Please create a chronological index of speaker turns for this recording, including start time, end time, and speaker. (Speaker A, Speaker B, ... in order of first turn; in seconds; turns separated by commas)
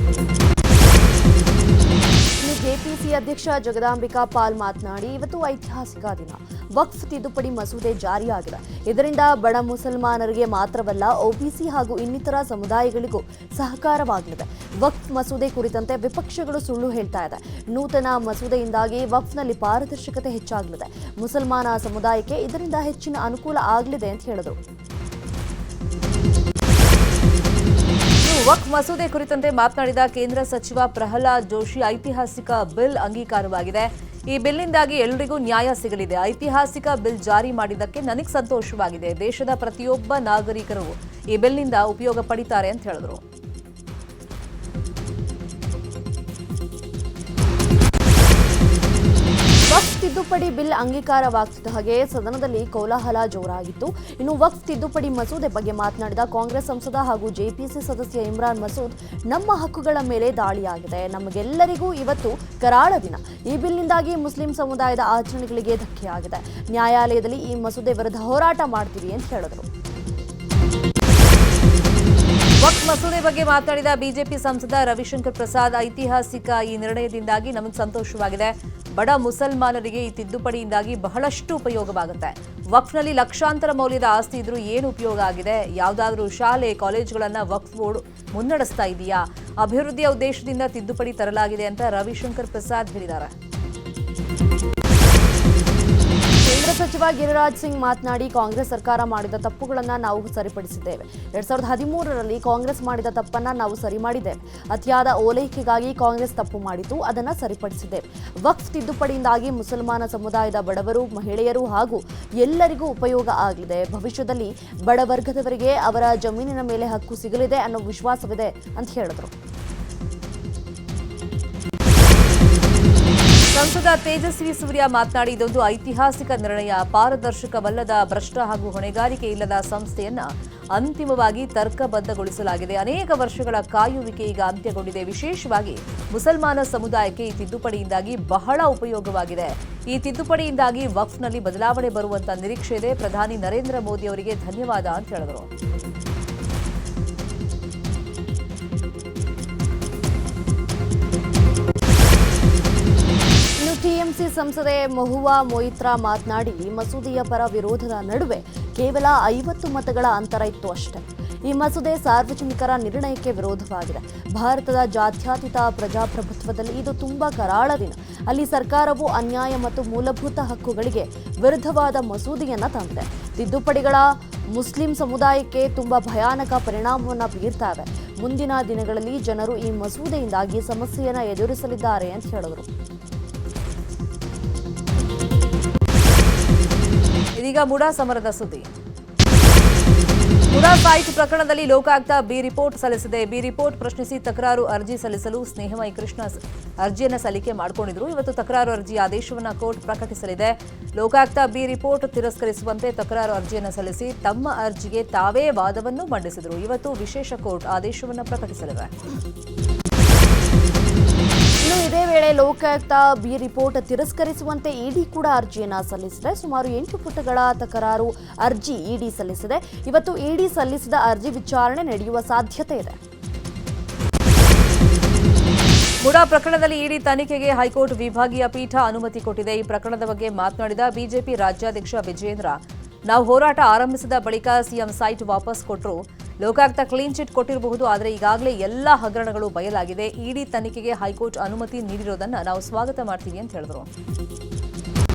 Speaker A: 2.4-24.6, Speaker B: 28.2-43.2, Speaker A: 49.7-69.7, Speaker B: 72.6-93.3, Speaker A: 96.5-119.3, Speaker B: 123.5-145.5, Speaker A: 153.6-182.7, Speaker B: 187.4-188.7, Speaker B: 190.5-208.9, Speaker A: 211.6-223.0, Speaker B: 226.0-232.6, Speaker B: 233.1-243.9